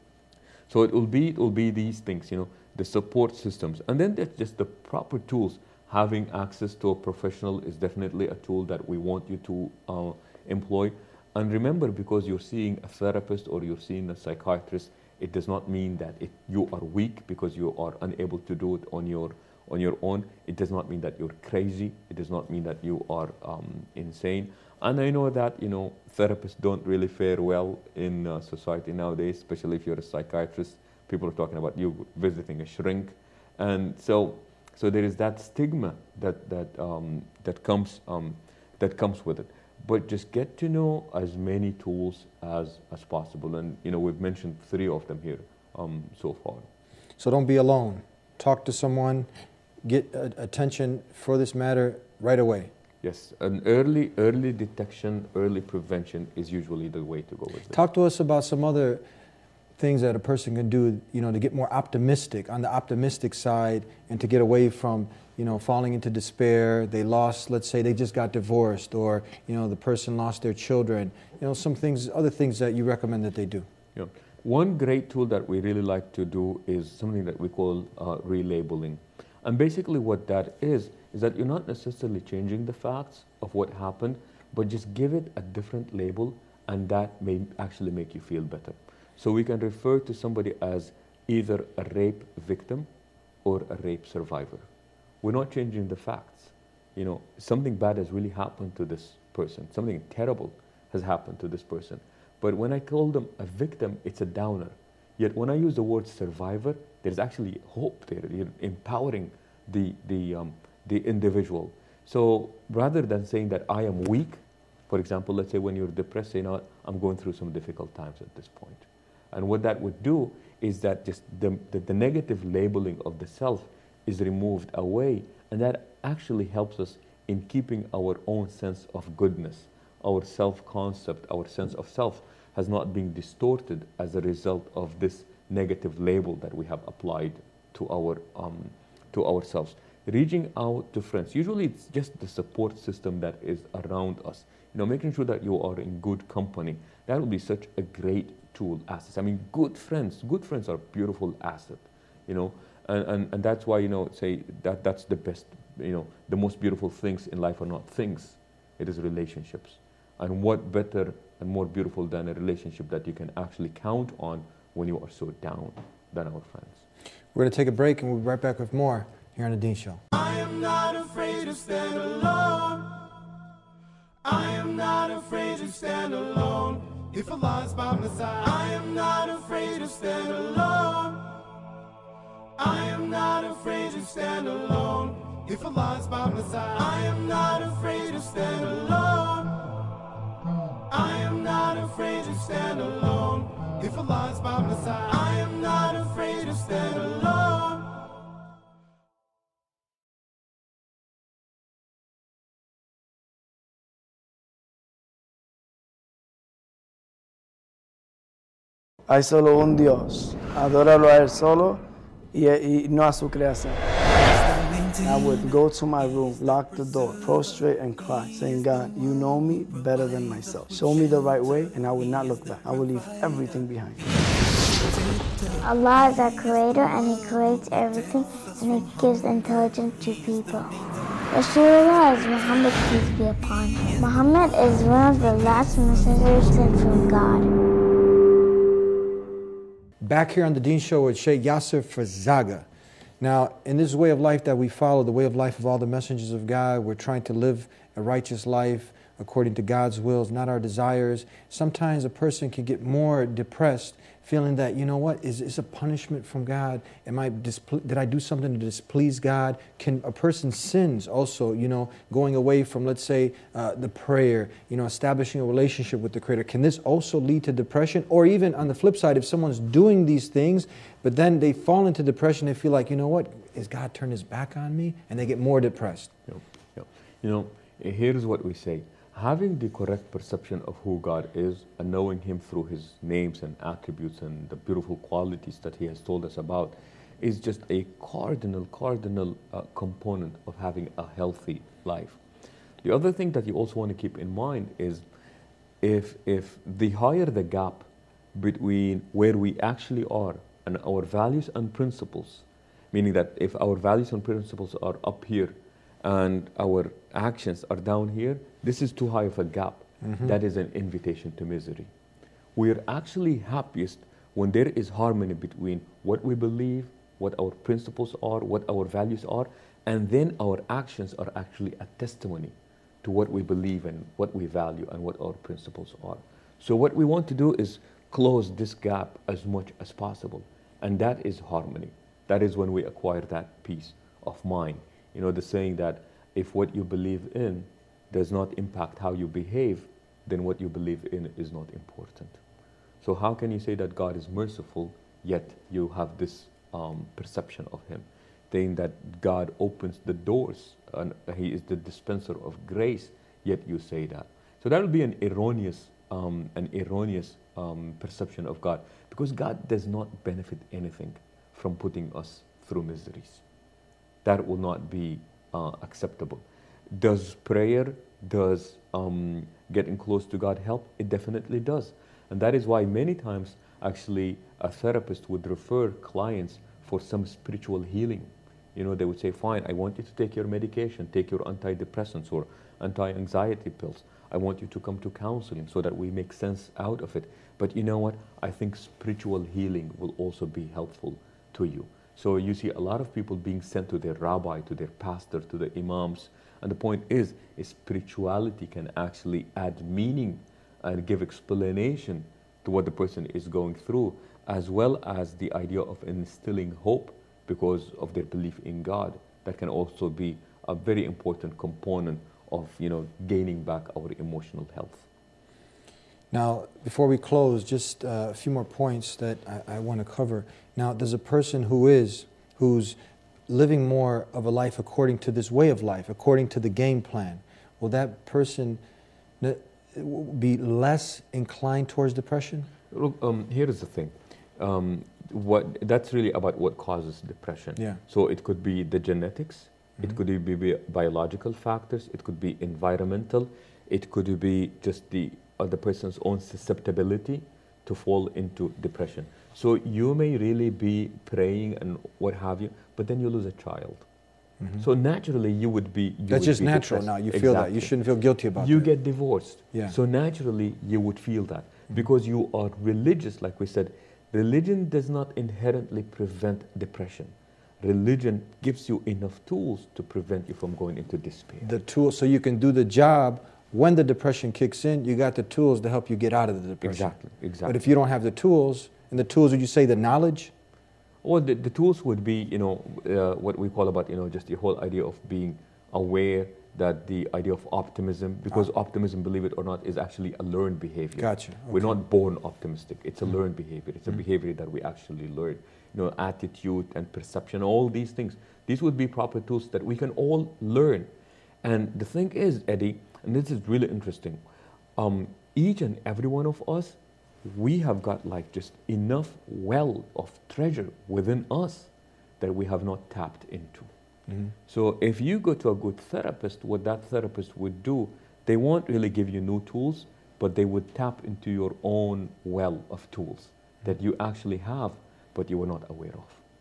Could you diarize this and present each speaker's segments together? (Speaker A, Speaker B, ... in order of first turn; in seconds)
Speaker A: 0.7-46.7, 53.0-57.8, 74.0-92.9, 93.5-94.7, 95.2-166.8, 276.3-292.2, 292.8-295.0, 295.8-311.9, 312.6-342.4, 343.0-363.4, 364.2-415.1, 432.9-454.1, 454.8-457.9, 458.6-471.7, 476.8-477.8, 481.2-501.1, 501.6-504.4, 505.0-513.9, 514.7-526.4
Speaker B: 47.2-49.3, 49.8-52.7, 57.7-59.0, 59.8-73.7, 167.3-170.0, 240.0-242.7, 243.2-276.1, 310.0-310.3, 416.3-423.0, 423.5-428.8, 429.4-432.7, 454.6-454.9, 456.3-458.9, 471.6-480.5, 491.2-492.0
Speaker C: 170.1-172.9, 174.2-181.2, 182.6-189.6, 190.9-197.9
Speaker D: 209.1-213.8, 215.0-224.0
Speaker E: 225.6-230.7, 231.3-237.5